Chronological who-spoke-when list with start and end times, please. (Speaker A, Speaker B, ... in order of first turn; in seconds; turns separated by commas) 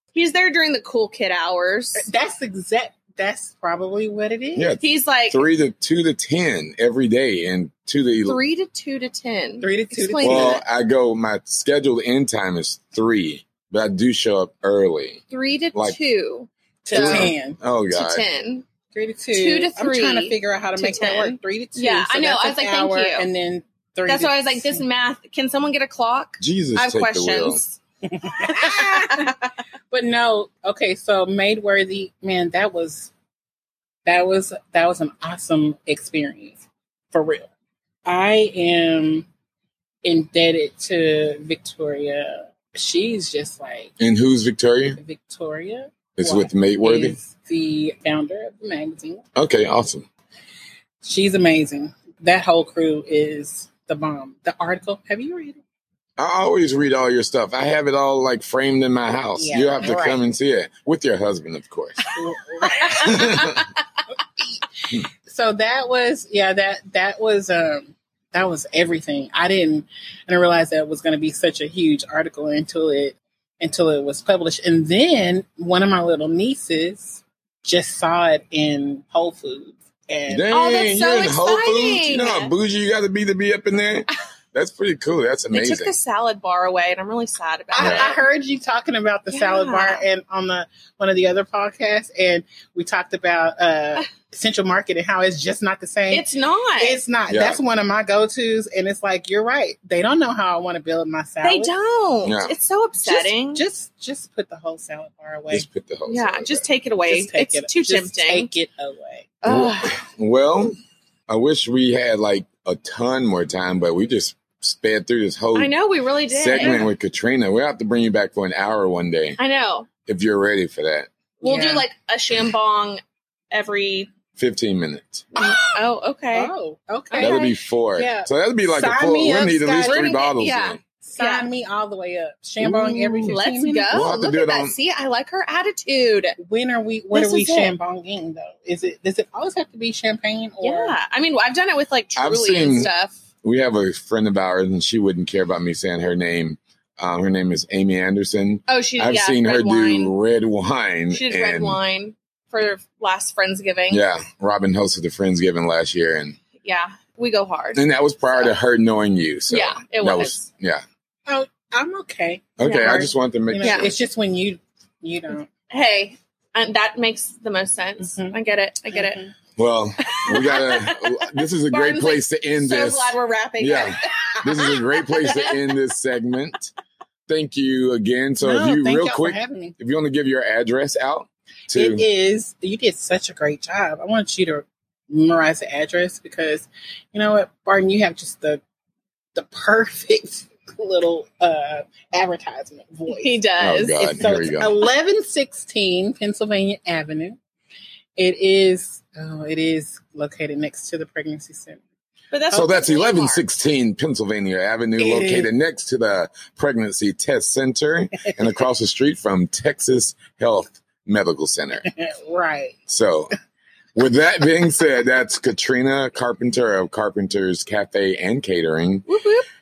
Speaker A: 0.1-2.1, Speaker B: 2.0-4.8, Speaker C: 4.5-8.4, Speaker A: 4.8-5.4, Speaker A: 8.2-10.6, Speaker B: 9.6-10.6, Speaker C: 10.2-15.2, Speaker A: 15.3-17.3, Speaker B: 16.8-17.6, Speaker C: 16.9-18.2, Speaker A: 17.9-18.6, Speaker B: 18.9-24.8, Speaker A: 19.3-23.3, Speaker A: 24.1-27.8, Speaker C: 26.4-27.6, Speaker B: 28.1-33.1, Speaker A: 28.5-29.3, Speaker B: 34.0-37.5, Speaker B: 38.0-39.3, Speaker B: 40.0-43.9, Speaker C: 44.0-45.0, Speaker B: 44.9-49.2, Speaker C: 46.1-47.2, Speaker C: 49.4-50.0, Speaker B: 51.0-55.6, Speaker C: 56.2-62.0, Speaker B: 59.4-60.2, Speaker B: 62.1-63.6, Speaker C: 63.0-63.6, Speaker B: 64.4-80.5, Speaker C: 80.3-85.9, Speaker A: 80.5-82.5, Speaker A: 85.5-88.2, Speaker B: 87.7-96.2, Speaker C: 87.8-88.1, Speaker A: 89.3-90.0, Speaker A: 96.1-97.0, Speaker B: 96.8-101.7, Speaker C: 97.3-97.6, Speaker A: 101.4-103.6, Speaker C: 102.2-102.5, Speaker B: 103.0-105.7, Speaker C: 105.5-106.7, Speaker A: 106.1-108.5, Speaker B: 107.1-109.3, Speaker A: 109.4-110.0, Speaker C: 109.5-110.7, Speaker C: 111.3-115.7, Speaker A: 115.5-116.8, Speaker C: 116.3-119.4, Speaker B: 116.5-116.9, Speaker A: 119.4-119.9, Speaker C: 120.0-121.1, Speaker A: 121.4-124.1, Speaker B: 121.4-121.8, Speaker C: 124.3-125.3, Speaker B: 125.3-125.7, Speaker A: 125.3-126.5, Speaker B: 126.3-130.1, Speaker A: 127.1-127.5, Speaker C: 127.2-130.8, Speaker A: 129.8-131.5, Speaker B: 131.0-134.0, Speaker C: 132.6-133.4, Speaker A: 133.2-136.4, Speaker C: 133.9-134.7, Speaker B: 136.4-140.9, Speaker A: 137.1-137.7, Speaker A: 140.6-143.2, Speaker C: 142.2-142.9, Speaker C: 143.4-151.8, Speaker A: 148.7-150.1, Speaker A: 151.1-154.0, Speaker C: 153.9-156.4, Speaker A: 156.6-157.8, Speaker C: 157.7-160.8, Speaker A: 159.5-160.4, Speaker B: 161.3-165.5, Speaker C: 162.6-164.0, Speaker A: 163.6-163.9, Speaker A: 165.7-169.2, Speaker B: 168.0-168.3, Speaker B: 168.9-169.3, Speaker C: 169.6-176.7, Speaker A: 170.0-171.2, Speaker A: 171.7-175.6, Speaker C: 177.3-182.0, Speaker B: 178.4-179.7, Speaker B: 181.7-188.6, Speaker B: 189.3-193.3, Speaker A: 193.1-194.2, Speaker C: 193.6-194.7, Speaker B: 194.2-197.4, Speaker B: 198.2-201.8, Speaker A: 202.3-203.4, Speaker C: 202.5-211.9, Speaker B: 205.0-205.5, Speaker B: 211.8-212.8, Speaker C: 212.9-213.3, Speaker C: 213.9-219.1, Speaker A: 219.1-219.4